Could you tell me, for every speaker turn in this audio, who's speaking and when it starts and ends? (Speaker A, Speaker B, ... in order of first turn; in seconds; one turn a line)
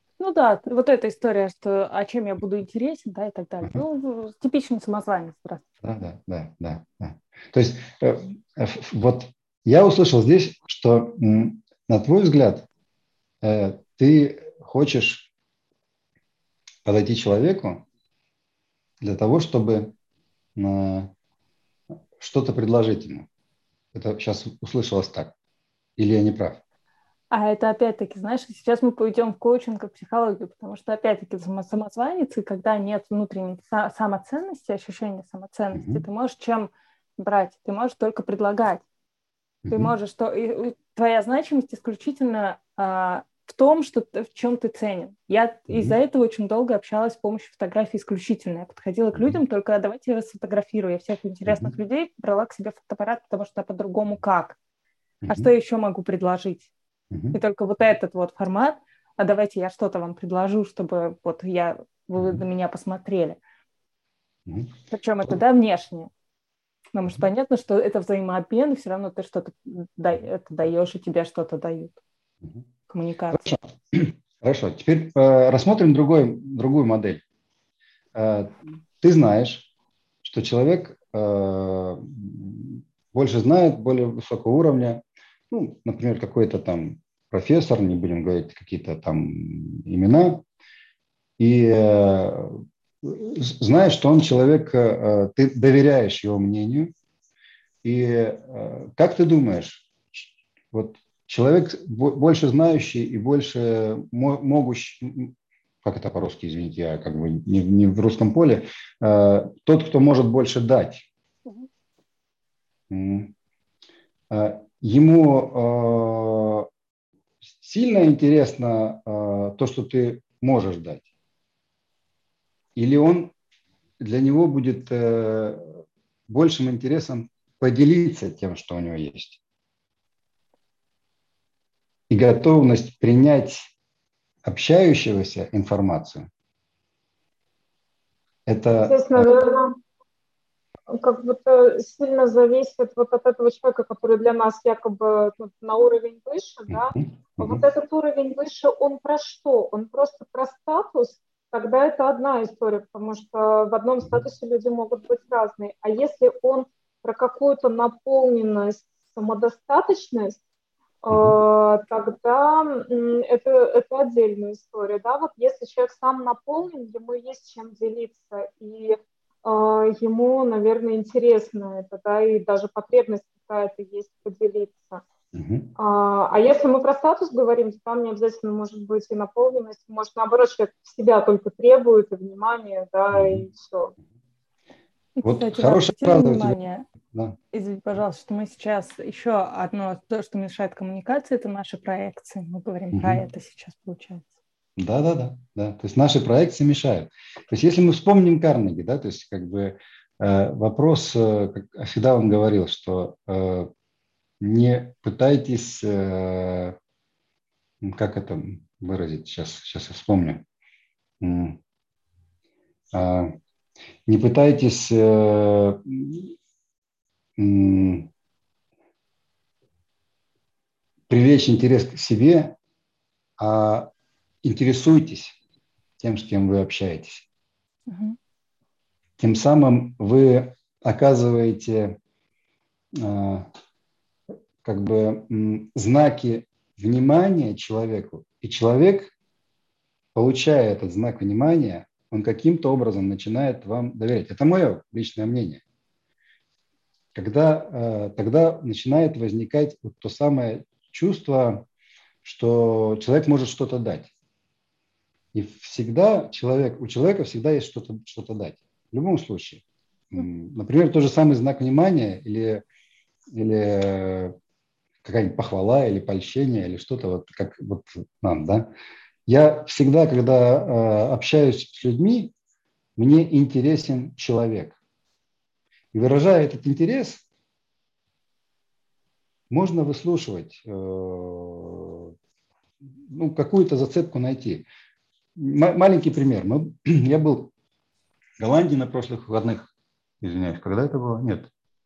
Speaker A: 0.2-5.7
Speaker B: 5.8-12.7
Speaker B: 13.4-15.3
Speaker B: 16.9-17.8
Speaker B: 19.0-19.9
Speaker B: 20.6-21.1
Speaker B: 22.2-23.3
Speaker B: 23.9-25.3
Speaker B: 26.0-26.6
Speaker A: 27.3-38.8
Speaker B: 35.7-36.0
Speaker B: 39.6-39.9
Speaker A: 39.7-54.6
Speaker B: 45.7-46.0
Speaker B: 51.5-51.7
Speaker B: 55.2-55.5
Speaker A: 55.3-56.7
Speaker B: 57.1-57.4
Speaker A: 57.3-63.4
Speaker B: 62.2-62.4
Speaker B: 64.5-64.7
Speaker A: 64.9-66.1
Speaker A: 66.9-72.0
Speaker A: 72.9-73.5
Speaker B: 73.3-77.2
Speaker B: 78.2-79.7
Speaker B: 80.2-90.4
Speaker B: 91.4-96.9
Speaker B: 97.8-111.1
Speaker B: 112.9-113.3
Speaker B: 114.3-116.7
Speaker B: 117.6-121.1
Speaker B: 122.8-123.3
Speaker B: 124.0-129.4
Speaker B: 132.1-133.7
Speaker B: 134.4-136.3
Speaker B: 138.5-139.3
Speaker C: 138.9-139.8
Speaker C: 140.9-160.4
Speaker B: 146.7-147.6
Speaker C: 161.0-175.0
Speaker B: 161.1-161.4
Speaker B: 175.3-175.7
Speaker C: 175.8-183.9
Speaker B: 183.1-183.5
Speaker A: 185.2-186.8
Speaker B: 185.2-186.6
Speaker A: 187.5-194.3
Speaker B: 192.9-193.2
Speaker B: 194.8-203.7
Speaker B: 204.4-206.8
Speaker B: 207.8-210.4
Speaker B: 211.2-211.6
Speaker B: 212.9-213.4
Speaker B: 214.1-216.3
Speaker B: 217.4-218.1
Speaker B: 221.1-222.6
Speaker B: 223.4-223.9
Speaker B: 224.4-225.4
Speaker B: 226.0-227.3
Speaker A: 227.9-228.2
Speaker B: 229.2-232.0
Speaker B: 232.9-233.5
Speaker B: 234.6-239.1
Speaker B: 240.2-245.6
Speaker B: 247.2-251.7
Speaker B: 252.2-254.1
Speaker B: 255.3-262.6
Speaker B: 263.3-264.4
Speaker B: 265.0-268.7
Speaker B: 269.3-272.3
Speaker B: 273.0-274.8
Speaker B: 275.9-277.2
Speaker B: 279.5-282.1
Speaker B: 283.1-284.7
Speaker B: 285.4-287.5
Speaker B: 288.4-289.7
Speaker B: 290.2-291.5